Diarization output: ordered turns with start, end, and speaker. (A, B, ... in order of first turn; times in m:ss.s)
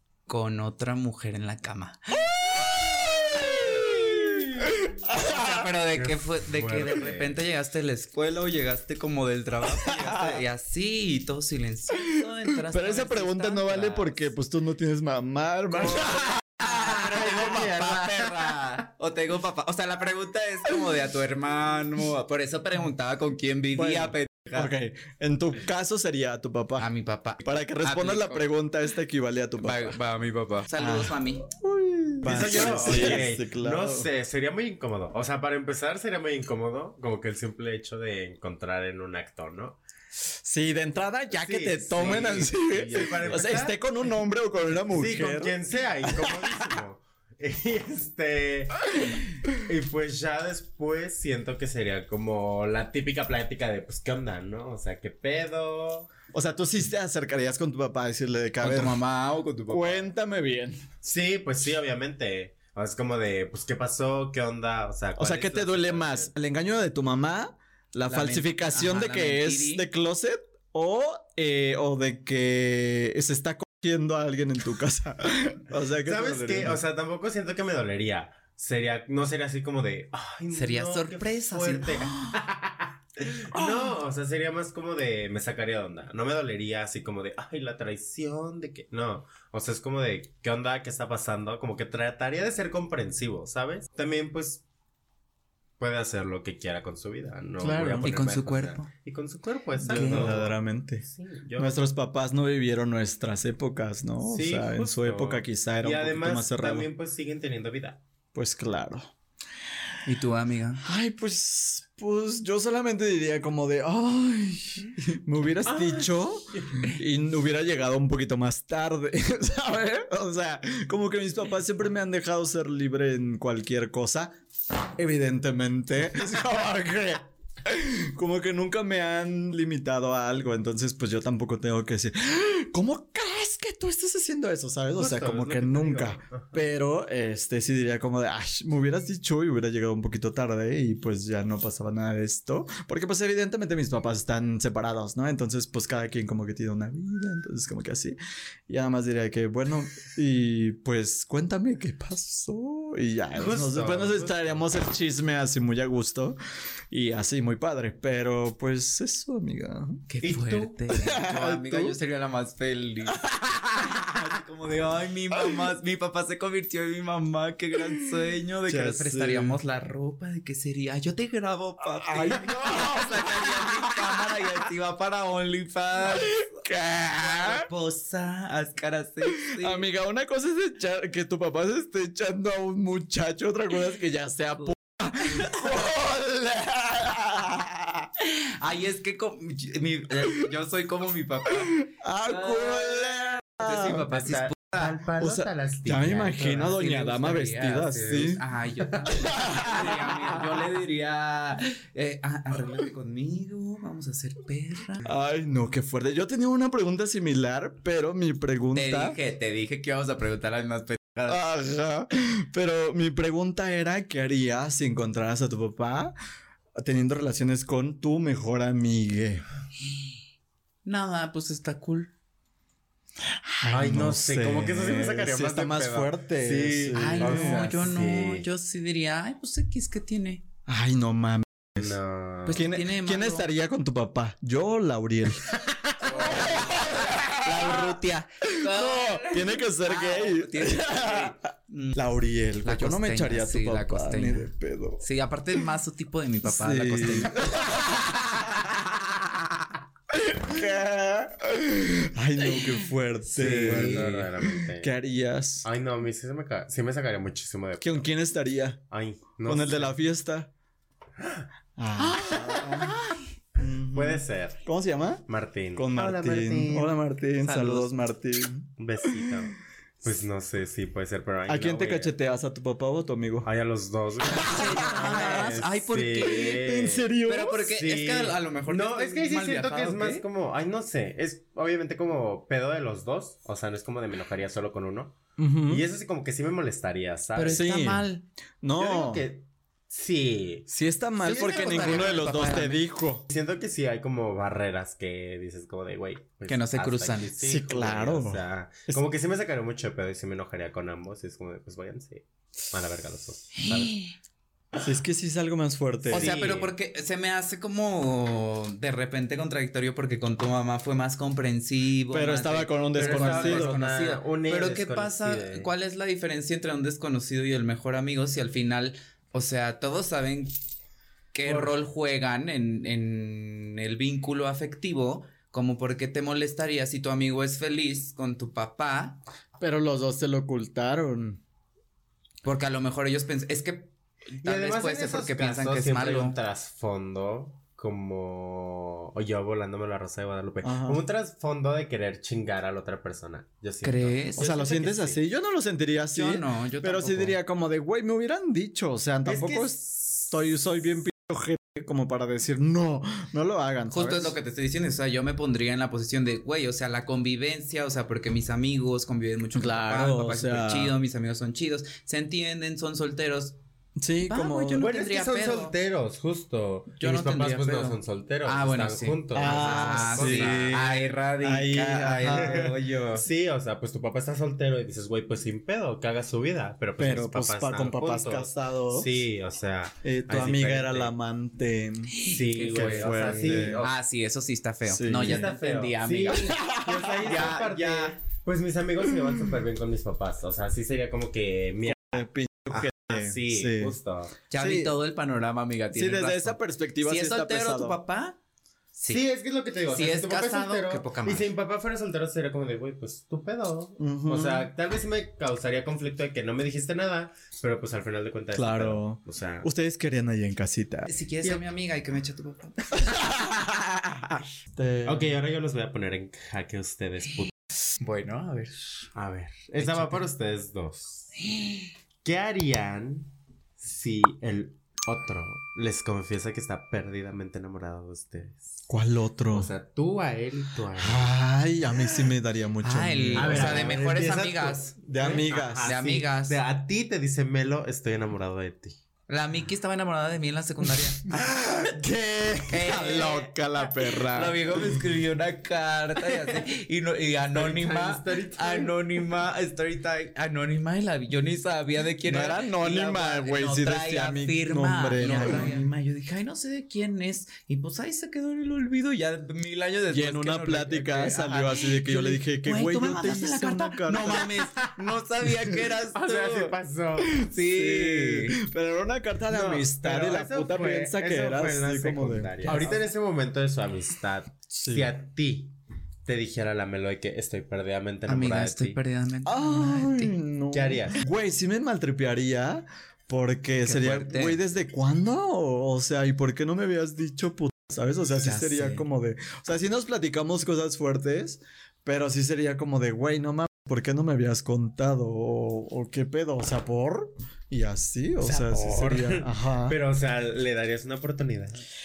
0:00.3-0:04.0 A
0:02.5-0:05.6 B
0:05.1-0:14.3 A
0:05.9-0:07.3 C
0:09.8-0:10.2 B
0:12.1-0:18.3 B
0:15.7-0:24.7 A
0:23.7-0:26.8 B
0:26.8-0:28.5 A
0:27.4-0:30.0 B
0:29.6-0:31.4 A
0:30.8-0:34.1 B
0:32.2-0:39.8 C
0:32.8-0:33.2 A
0:40.4-0:46.8 B
0:41.3-0:43.8 C
0:44.9-0:56.1 C
0:56.3-0:59.0 B
0:58.6-1:00.1 A
0:59.7-1:00.8 B
1:01.0-1:06.3 C
1:05.2-1:16.8 B
1:08.1-1:09.9 A
1:16.0-1:34.6 C
1:20.5-1:22.4 A
1:23.5-1:23.9 B
1:35.8-1:41.8 C
1:37.6-1:38.1 B
1:38.0-1:38.9 A
1:39.8-1:40.3 A
1:39.9-1:41.0 B
1:41.6-1:46.9 B
1:44.2-1:48.0 C
1:48.3-1:49.1 B
1:50.0-1:50.8 A
1:50.8-2:04.3 B
1:55.7-1:56.8 C
2:04.9-2:28.2 B
2:15.0-2:16.6 C
2:28.7-2:36.4 B
2:33.3-2:34.7 C
2:36.9-2:40.0 B
2:40.1-2:43.2 A
2:40.2-2:40.8 C
2:40.9-2:41.9 B
2:43.2-2:44.1 B
2:43.8-2:56.5 A
2:48.6-2:49.6 B
2:52.0-2:54.3 B
2:56.1-2:57.7 B
2:57.2-2:59.9 A
2:59.4-3:08.1 B
3:05.3-3:05.6 A
3:08.2-3:14.9 A
3:11.7-3:14.0 B
3:14.1-3:16.8 C
3:15.2-3:18.4 B
3:16.4-3:25.1 A
3:19.2-3:20.4 B
3:25.0-3:29.2 B
3:28.7-3:31.4 A
3:31.3-3:36.1 B
3:36.8-3:39.4 B
3:40.8-3:42.1 A
3:43.4-3:47.7 B
3:43.7-3:48.4 C
3:46.9-3:50.4 A
3:50.7-3:52.0 B
3:51.8-3:52.6 C
3:52.4-3:53.5 A
3:52.5-4:01.4 B
3:55.6-3:56.6 C
3:56.0-4:02.0 A
4:01.9-4:05.0 B
4:02.6-4:07.9 A
4:06.4-4:09.2 B
4:10.1-4:15.7 B
4:13.4-4:14.9 C
4:13.6-4:14.3 A
4:15.6-4:18.1 C
4:17.8-4:18.8 B
4:18.9-4:19.9 C
4:19.4-4:20.5 B
4:21.2-4:21.4 C
4:21.8-4:22.9 B
4:22.1-4:23.2 A
4:23.6-4:29.2 B
4:23.9-4:24.6 C
4:25.3-4:27.9 C
4:27.5-4:27.7 A
4:28.8-4:32.1 C
4:31.5-4:33.5 B
4:33.4-4:47.7 C
4:34.2-4:35.6 B
4:34.3-4:36.7 A
4:36.2-4:37.6 B
4:37.3-4:40.2 A
4:45.4-4:45.8 B
4:47.3-4:48.2 A
4:47.5-4:48.1 B
4:48.6-4:49.2 B
4:48.8-4:50.7 C
4:50.7-4:53.2 B
4:51.2-4:52.2 C
4:51.2-4:52.8 A
4:53.3-5:04.0 C
4:56.5-4:57.3 A
4:57.4-4:59.0 B
5:03.5-5:04.1 A
5:04.8-5:06.3 B
5:06.0-5:06.7 C
5:06.1-5:20.5 A
5:12.1-5:13.7 B
5:12.9-5:15.7 C
5:21.3-5:29.2 A
5:21.5-5:21.7 B
5:29.6-5:31.4 B
5:32.4-5:36.4 A
5:34.4-5:45.2 C
5:40.6-5:41.0 B
5:43.8-5:44.5 A
5:44.4-5:54.4 B
5:46.2-5:47.4 A
5:49.2-5:50.3 C
5:53.9-6:03.6 A
5:59.5-6:01.0 B
6:04.0-6:04.9 B
6:04.2-6:05.7 A
6:04.8-6:11.0 C
6:07.0-6:13.2 A
6:09.3-6:12.7 B
6:12.1-6:21.1 C
6:17.0-6:19.1 B
6:20.0-6:22.1 B
6:22.1-6:28.2 A
6:22.2-6:24.0 C
6:22.7-6:23.8 B
6:24.9-6:25.5 B
6:25.2-6:34.4 C
6:26.5-6:27.6 B
6:31.9-6:34.0 B
6:34.5-6:38.4 A
6:34.6-6:34.9 B
6:35.9-6:38.0 B
6:39.0-6:39.3 A
6:39.1-6:49.7 C
6:39.9-6:41.5 A
6:44.0-6:44.7 B
6:48.5-6:51.1 B
6:51.1-6:53.2 A
6:53.2-6:55.3 B
6:55.0-6:57.5 C
6:58.0-6:59.1 A
6:59.1-7:01.3 C
6:59.8-7:00.3 A
7:01.5-7:01.8 A
7:02.2-7:08.6 C
7:08.9-7:09.7 B
7:09.5-7:11.4 C
7:11.0-7:13.9 B
7:12.8-7:15.0 A
7:13.3-7:19.0 C
7:15.0-7:15.9 B
7:15.8-7:16.6 A
7:19.3-7:21.2 A
7:21.3-7:22.9 C
7:22.7-7:46.8 A
7:22.8-7:24.8 B
7:26.2-7:26.7 C
7:27.5-7:29.3 C
7:32.2-7:35.8 B
7:35.2-7:35.8 C
7:40.1-7:44.5 B
7:44.4-7:44.9 C
7:46.1-7:47.4 C
7:47.3-7:53.0 B
7:47.4-7:48.6 A
7:49.5-7:59.0 C
7:52.7-7:53.0 A
7:54.8-7:55.1 B
7:58.3-8:00.4 A
7:59.4-8:20.0 B
8:00.7-8:01.2 C
8:03.8-8:04.6 A
8:08.4-8:09.0 A
8:18.4-8:21.8 C